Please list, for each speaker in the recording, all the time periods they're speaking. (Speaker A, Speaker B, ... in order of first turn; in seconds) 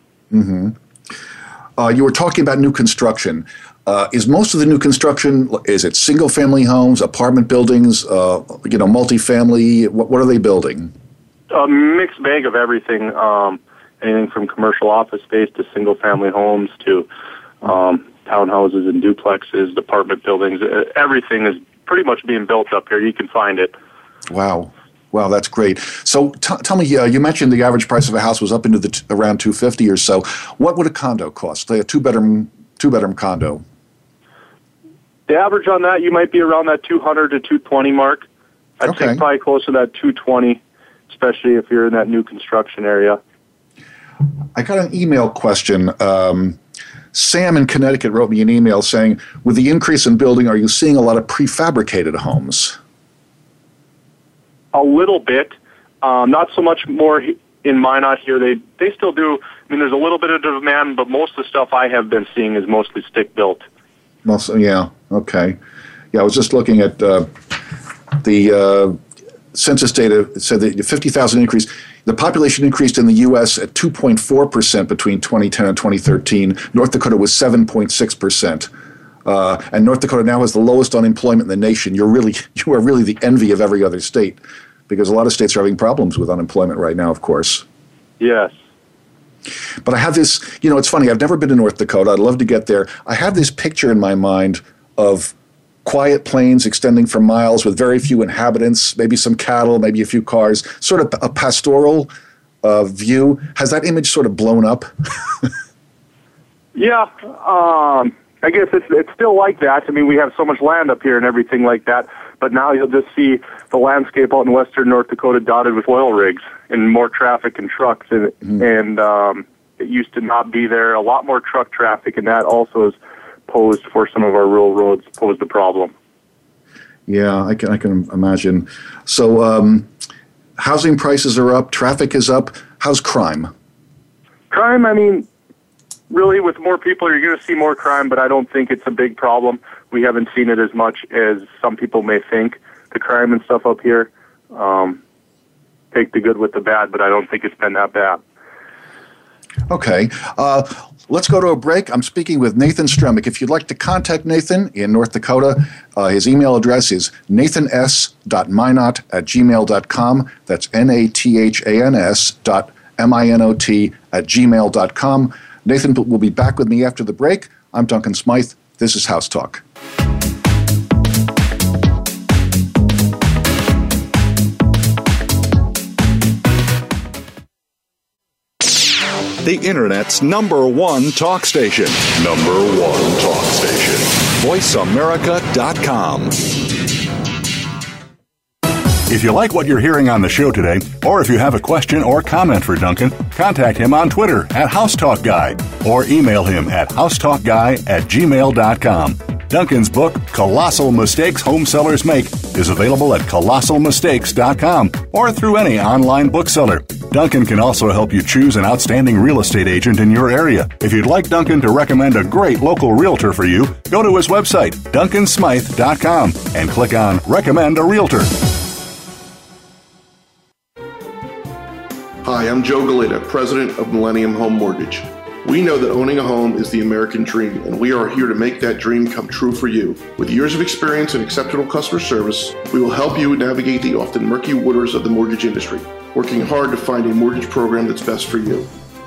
Speaker A: 0.3-0.8, 1.8-10.9, 24.3-33.6, 38.8-39.2, 44.5-46.6, 47.1-52.8, 64.2-65.6, 66.1-67.3, 68.2-69.0, 69.5-78.7, 79.2-87.6, 89.8-102.1, 102.6-105.5, 127.1-129.9, 130.6-133.5, 149.7-169.6
Speaker B: 11.5-17.1, 17.6-23.7, 35.3-38.2, 38.8-43.2, 54.7-63.6, 88.2-88.5, 106.7-125.9, 134.5-135.3, 136.1-145.0, 145.9-148.2
Speaker C: 179.4-186.6, 189.1-218.4
Speaker D: 222.2-238.7